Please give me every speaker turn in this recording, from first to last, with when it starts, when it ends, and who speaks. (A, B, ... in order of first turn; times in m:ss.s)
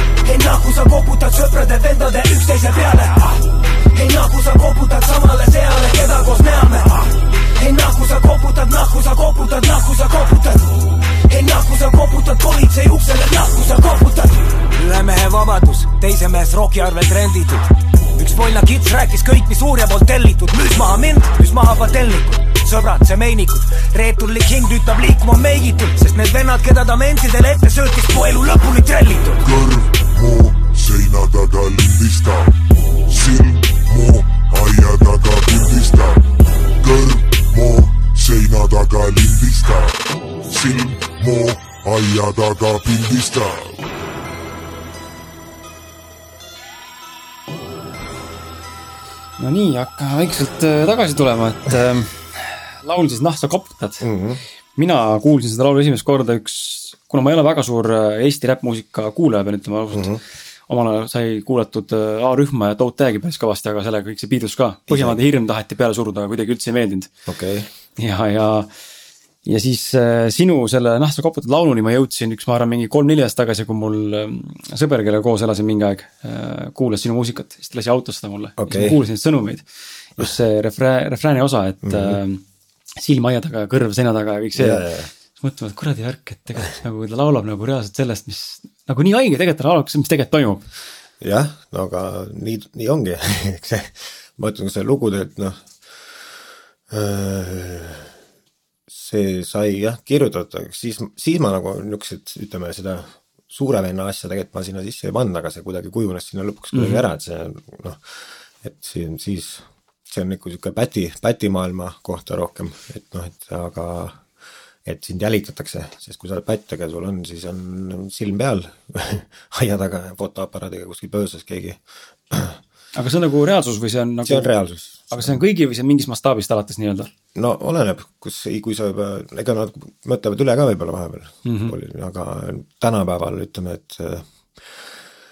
0:00.2-0:29.4 A
0:29.4-0:43.9 B
0:49.4-0:54.1 C
0:54.0-0:54.4 D
0:54.8-1:00.1 C
0:59.9-1:00.2 D
1:00.7-1:07.1 C
1:04.9-1:05.2 D
1:07.3-1:07.7 D
1:08.0-1:08.7 C
1:09.4-1:22.4 C
1:18.6-1:19.0 D
1:21.8-1:22.2 D
1:23.0-1:30.7 C
1:24.6-1:25.1 D
1:31.2-1:38.2 D
1:38.9-1:54.3 D
1:46.7-1:47.0 C
1:54.8-2:02.6 D
2:02.9-2:04.5 C
2:04.2-2:05.4 D
2:05.1-2:07.1 C
2:07.4-2:15.0 D
2:11.4-2:11.8 C